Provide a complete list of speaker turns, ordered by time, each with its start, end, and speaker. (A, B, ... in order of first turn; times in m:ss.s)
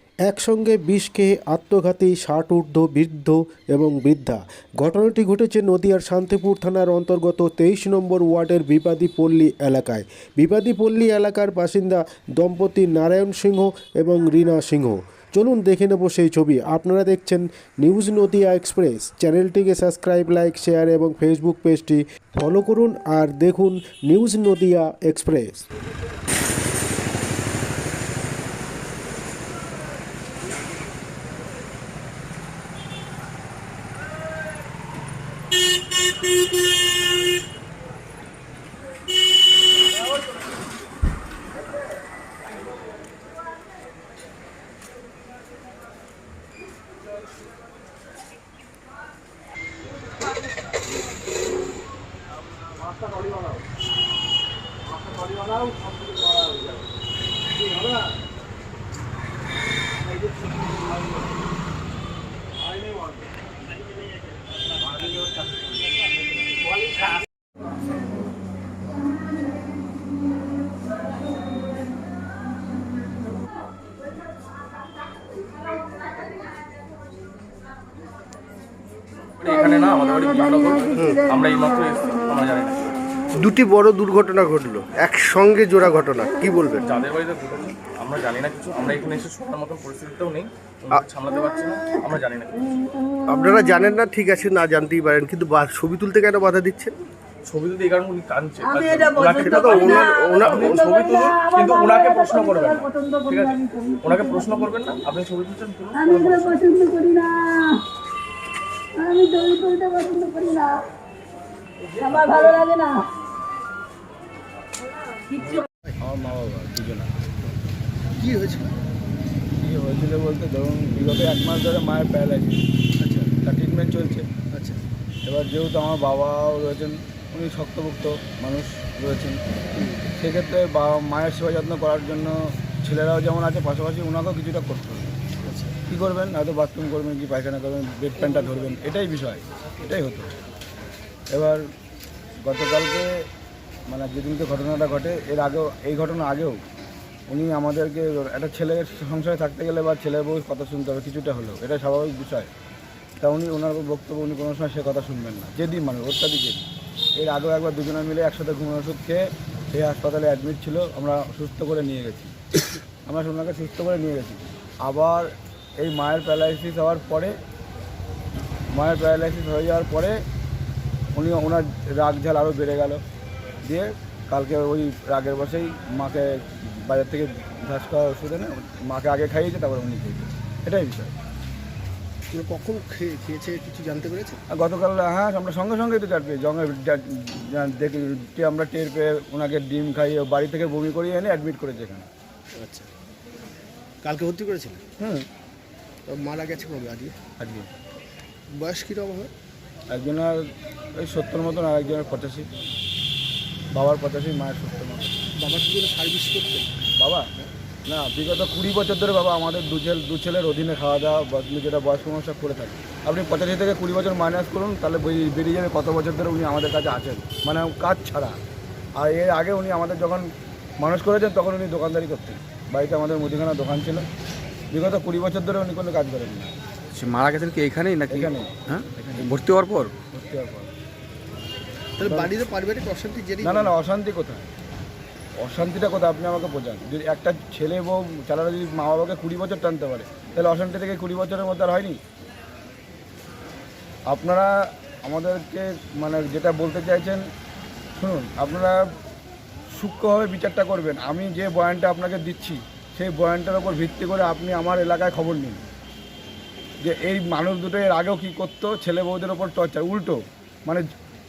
0:00.2-0:25.6 A
1:19.4-1:22.9 B
1:21.0-1:21.2 C
1:23.3-1:26.8 C
1:26.8-1:32.5 B
1:33.3-1:37.0 C
1:37.5-1:46.7 B
1:38.8-1:44.2 D
1:39.4-1:40.9 C
1:46.1-1:47.8 D
1:49.0-1:50.8 D
1:51.9-1:52.6 C
1:52.0-1:53.0 D
1:55.4-1:56.0 C
1:56.0-1:57.1 E
1:58.2-1:58.7 C
1:59.6-2:02.6 E
2:03.0-2:03.3 C
2:03.4-2:04.3 E
2:04.5-2:04.8 C
2:05.2-2:09.4 E
2:09.7-2:10.1 C
2:10.2-2:15.2 E
2:15.4-2:15.8 C
2:15.9-2:20.3 E
2:21.3-2:21.6 E
2:22.4-2:23.2 E
2:23.9-2:26.6 E
2:27.3-2:32.5 E
2:33.2-2:36.7 E
2:37.2-2:42.3 E
2:43.0-2:47.4 E
2:48.7-2:50.2 E
2:51.1-2:53.0 E
2:53.6-3:01.1 E
3:02.3-3:04.4 C
3:04.5-3:12.1 E
3:12.6-3:12.9 C
3:14.0-3:14.8 C
3:15.0-3:15.2 E
3:16.1-3:17.1 C
3:17.4-3:17.7 E
3:18.5-3:19.3 C
3:19.9-3:22.5 E
3:23.7-3:25.2 E
3:25.4-3:26.8 C
3:27.0-3:27.3 E
3:27.8-3:38.4 E
3:39.0-3:44.0 E
3:44.7-3:46.5 E
3:46.9-3:49.9 F
3:48.1-3:48.5 E
3:50.1-3:50.7 E
3:52.0-3:53.7 C
3:53.4-3:54.5 E
3:55.4-4:02.0 E
4:04.1-4:04.5 E
4:05.0-4:07.2 E
4:08.0-4:08.8 E
4:09.7-4:15.6 E
4:16.8-4:20.8 E